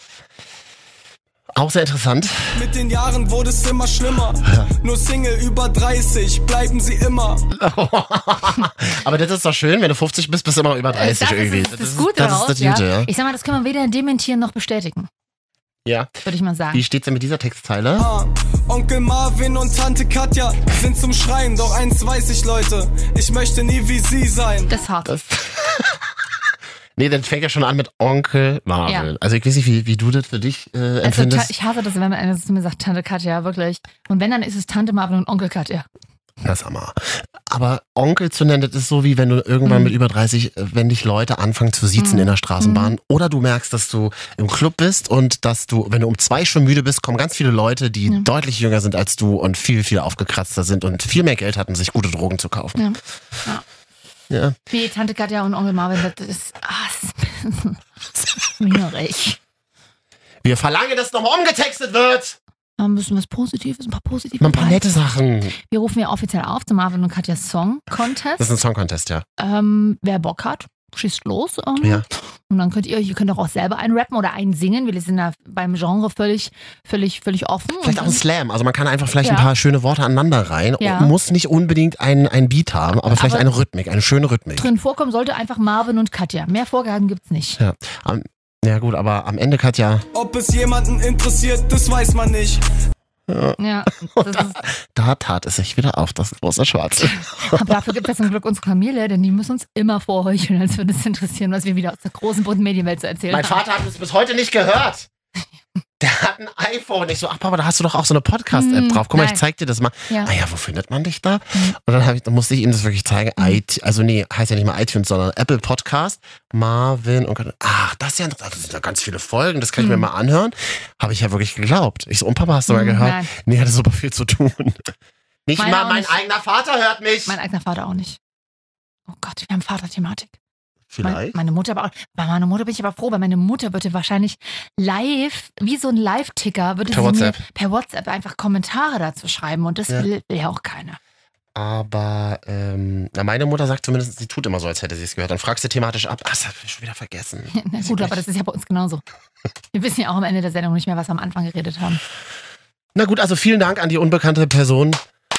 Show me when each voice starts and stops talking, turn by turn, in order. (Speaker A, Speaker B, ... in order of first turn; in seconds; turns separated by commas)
Speaker A: 1.5-2.6, Speaker B: 2.5-7.4, Speaker A: 7.5-13.1, Speaker C: 10.9-15.1, Speaker A: 15.8-16.1, Speaker C: 16.2-16.8, Speaker A: 16.7-18.1, Speaker B: 18.0-24.7, Speaker C: 24.7-25.2, Speaker A: 25.1-26.1, Speaker A: 26.9-31.5, Speaker C: 28.9-29.1, Speaker C: 31.0-35.9, Speaker A: 36.4-52.8, Speaker C: 39.6-39.9, Speaker C: 42.0-42.9, Speaker C: 52.8-53.6, Speaker A: 54.3-54.6, Speaker C: 54.7-59.4, Speaker A: 60.4-62.4, Speaker C: 62.8-64.9, Speaker A: 64.4-65.5, Speaker C: 65.5-68.5, Speaker A: 68.4-69.2, Speaker C: 69.4-78.2, Speaker A: 77.8-84.7, Speaker C: 79.2-79.5, Speaker C: 80.8-81.1, Speaker C: 83.1-83.5, Speaker C: 84.6-87.6, Speaker A: 87.6-90.0, Speaker B: 90.1-92.6, Speaker A: 93.3-97.8, Speaker C: 93.6-94.6, Speaker C: 97.1-103.6, Speaker A: 103.3-105.1, Speaker A: 106.0-124.9, Speaker C: 108.5-109.4, Speaker C: 119.8-120.1, Speaker C: 122.7-123.3, Speaker A: 125.5-127.4, Speaker C: 125.6-126.2, Speaker C: 127.2-128.2, Speaker C: 129.1-130.3, Speaker A: 130.9-131.4, Speaker C: 131.0-141.0, Speaker A: 136.9-137.4, Speaker A: 141.5-148.2, Speaker C: 147.5-149.0, Speaker C: 149.7-152.0, Speaker A: 152.9-155.0